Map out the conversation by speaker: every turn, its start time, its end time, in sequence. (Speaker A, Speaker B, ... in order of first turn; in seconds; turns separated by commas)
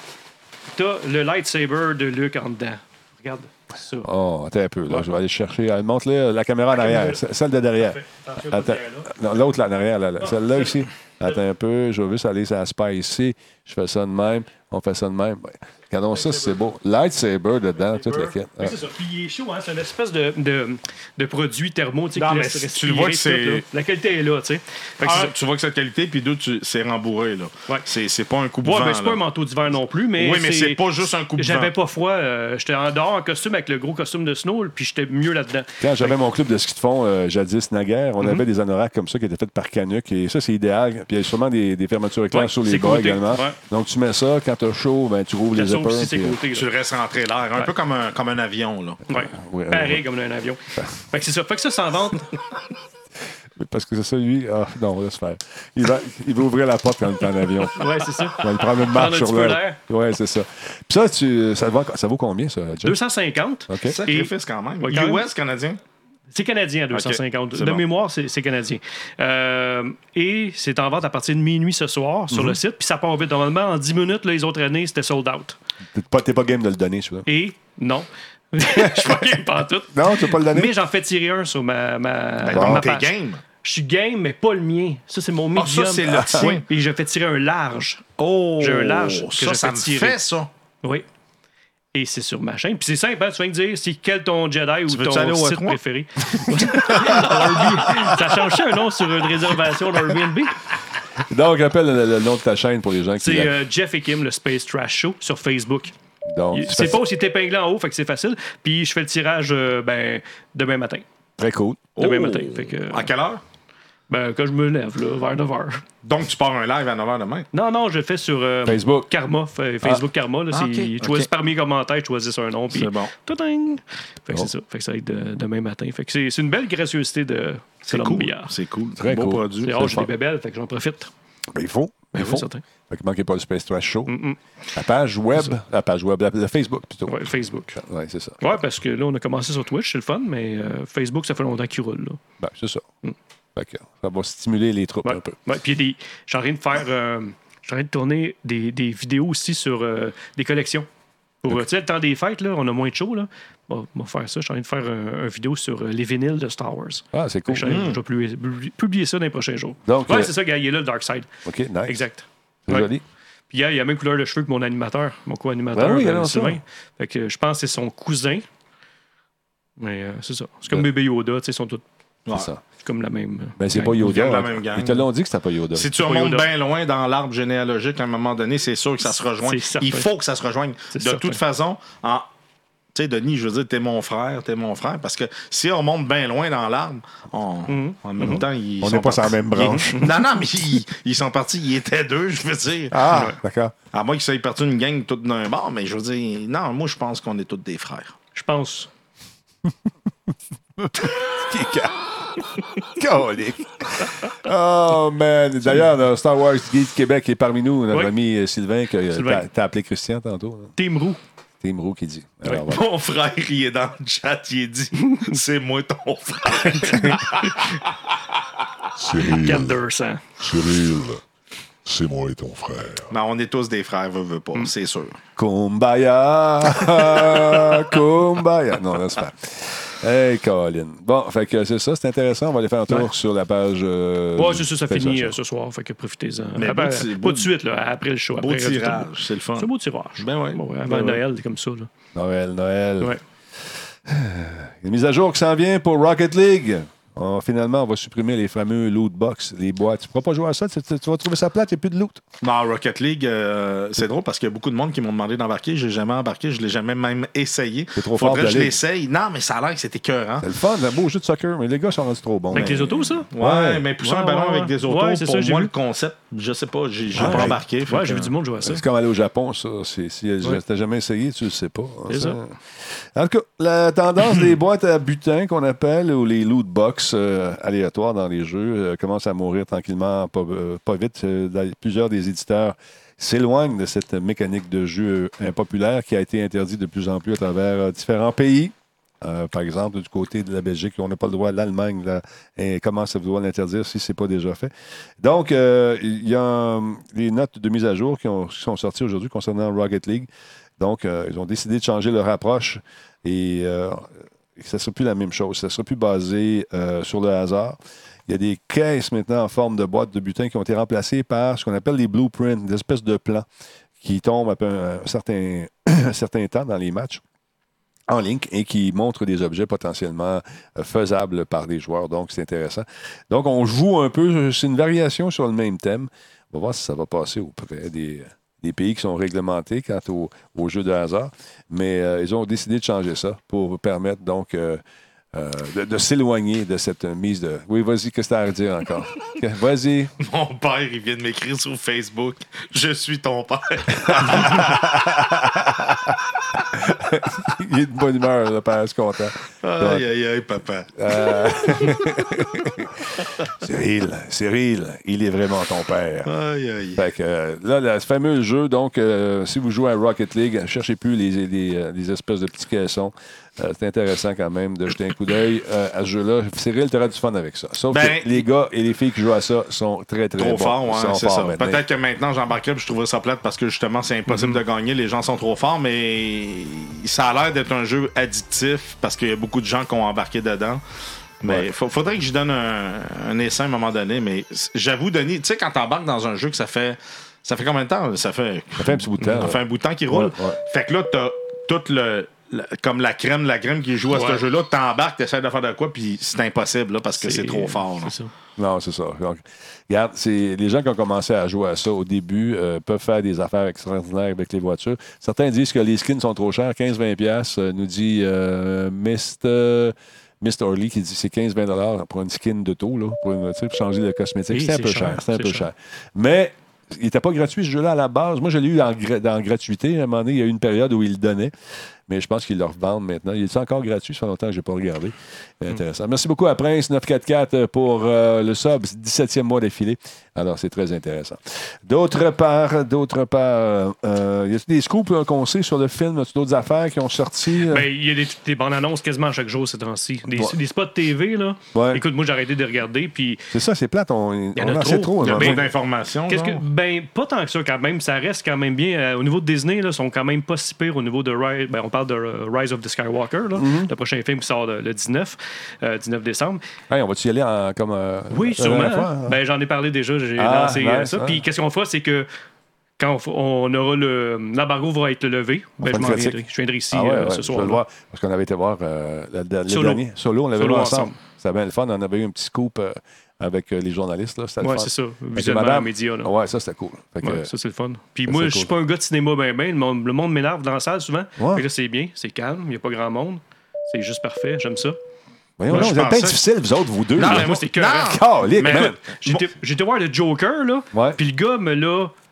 Speaker A: 0.7-4.1, Speaker B: 4.0-18.8, Speaker A: 6.7-7.2, Speaker A: 7.8-9.1, Speaker A: 10.2-10.8, Speaker A: 16.1-16.6, Speaker A: 17.9-25.3, Speaker C: 22.1-23.6, Speaker C: 25.0-29.2, Speaker A: 28.6-30.8, Speaker C: 30.1-31.7, Speaker A: 31.4-36.1, Speaker B: 35.8-46.4, Speaker A: 42.3-43.6, Speaker A: 45.5-46.7, Speaker C: 46.5-49.0, Speaker A: 49.1-52.3, Speaker B: 49.1-50.0, Speaker B: 53.5-63.0, Speaker A: 57.7-59.8, Speaker A: 62.8-65.3, Speaker B: 63.7-64.0, Speaker C: 63.9-65.8, Speaker A: 66.3-75.6, Speaker C: 66.9-67.8, Speaker B: 72.3-72.6, Speaker B: 75.9-77.3, Speaker A: 77.3-83.1, Speaker B: 78.6-79.3, Speaker B: 79.9-80.7, Speaker C: 82.4-83.4, Speaker B: 82.5-82.9, Speaker A: 83.6-88.0, Speaker C: 85.5-86.6, Speaker B: 86.1-86.5, Speaker C: 88.2-90.5, Speaker A: 88.6-90.2, Speaker A: 91.9-100.6, Speaker C: 94.9-95.8, Speaker C: 96.9-97.3, Speaker B: 101.2-103.5, Speaker A: 103.2-105.9, Speaker B: 106.3-107.0, Speaker A: 106.5-111.0, Speaker B: 111.4-111.9, Speaker A: 112.0-113.1, Speaker C: 112.0-113.4, Speaker A: 114.1-115.8, Speaker C: 116.0-117.5, Speaker A: 117.5-128.5, Speaker B: 118.6-119.1, Speaker C: 120.5-121.3, Speaker C: 122.7-123.1, Speaker C: 127.9-129.8, Speaker B: 129.0-130.1, Speaker A: 129.6-131.1, Speaker B: 131.5-134.1, Speaker A: 132.1-132.6, Speaker A: 134.1-134.4, Speaker B: 134.7-138.4, Speaker A: 137.1-137.8, Speaker A: 138.4-142.2, Speaker B: 142.4-142.8, Speaker B: 143.6-145.3, Speaker A: 145.0-150.9, Speaker A: 151.4-161.3, Speaker B: 157.1-157.9, Speaker C: 157.7-158.0, Speaker B: 159.8-160.3, Speaker B: 161.4-162.0, Speaker A: 161.8-162.9, Speaker B: 162.7-163.0, Speaker A: 163.5-168.4, Speaker B: 165.7-166.6, Speaker A: 169.8-171.8, Speaker B: 172.3-172.6, Speaker A: 172.8-174.1, Speaker B: 173.6-175.9, Speaker C: 174.0-175.1, Speaker C: 175.7-182.3, Speaker A: 176.0-176.5, Speaker A: 179.4-180.1, Speaker A: 180.9-181.4, Speaker C: 182.9-193.1, Speaker A: 187.7-188.4, Speaker B: 188.8-190.0, Speaker A: 189.8-190.1, Speaker B: 192.9-193.7, Speaker A: 193.1-193.4, Speaker C: 193.9-198.1, Speaker A: 198.3-198.9, Speaker B: 200.8-202.0, Speaker B: 202.8-210.7, Speaker A: 209.1-209.5, Speaker A: 210.8-211.2, Speaker B: 211.6-212.8, Speaker C: 212.5-217.9, Speaker B: 216.9-217.1, Speaker D: 218.9-219.8, Speaker A: 219.2-220.2, Speaker D: 220.4-221.2, Speaker D: 221.8-223.1, Speaker C: 223.1-225.2, Speaker B: 225.4-235.4, Speaker A: 234.3-241.9, Speaker C: 236.6-237.5, Speaker C: 238.4-241.2, Speaker B: 242.1-243.2, Speaker B: 244.1-252.2, Speaker C: 252.4-260.5, Speaker B: 257.9-258.8, Speaker B: 260.4-263.8, Speaker A: 262.5-263.3, Speaker C: 263.3-268.3, Speaker A: 264.0-265.7, Speaker B: 267.1-267.6, Speaker A: 267.2-268.8, Speaker B: 268.6-272.6, Speaker A: 272.1-272.4, Speaker B: 273.1-313.4, Speaker B: 314.0-317.2, Speaker B: 318.1-334.8, Speaker B: 335.3-340.1, Speaker C: 340.2-344.9, Speaker B: 344.0-346.1, Speaker B: 346.7-350.0, Speaker C: 349.6-351.9, Speaker B: 351.0-356.3, Speaker C: 356.2-357.0, Speaker B: 356.9-371.8, Speaker C: 367.9-368.4, Speaker C: 370.4-380.8, Speaker A: 374.3-374.6, Speaker C: 381.4-398.1, Speaker B: 388.8-390.6, Speaker A: 394.1-394.4, Speaker A: 397.2-398.3, Speaker B: 398.6-421.5, Speaker A: 414.5-415.7, Speaker B: 422.1-437.9, Speaker A: 437.6-443.5, Speaker B: 440.3-440.6, Speaker B: 441.7-442.0, Speaker B: 443.5-445.6, Speaker A: 444.6-445.7, Speaker C: 445.2-446.6, Speaker A: 446.3-456.6, Speaker B: 453.6-453.9, Speaker B: 456.9-459.4, Speaker A: 458.3-462.3, Speaker B: 460.4-461.4, Speaker A: 463.0-467.8, Speaker B: 465.8-477.5, Speaker A: 469.7-470.0, Speaker A: 470.5-471.2, Speaker A: 474.6-476.3, Speaker A: 477.2-485.0, Speaker B: 478.2-478.7, Speaker B: 481.4-481.6, Speaker B: 485.6-489.0, Speaker C: 485.7-486.4, Speaker C: 487.1-489.5, Speaker A: 487.2-492.1, Speaker B: 490.9-491.2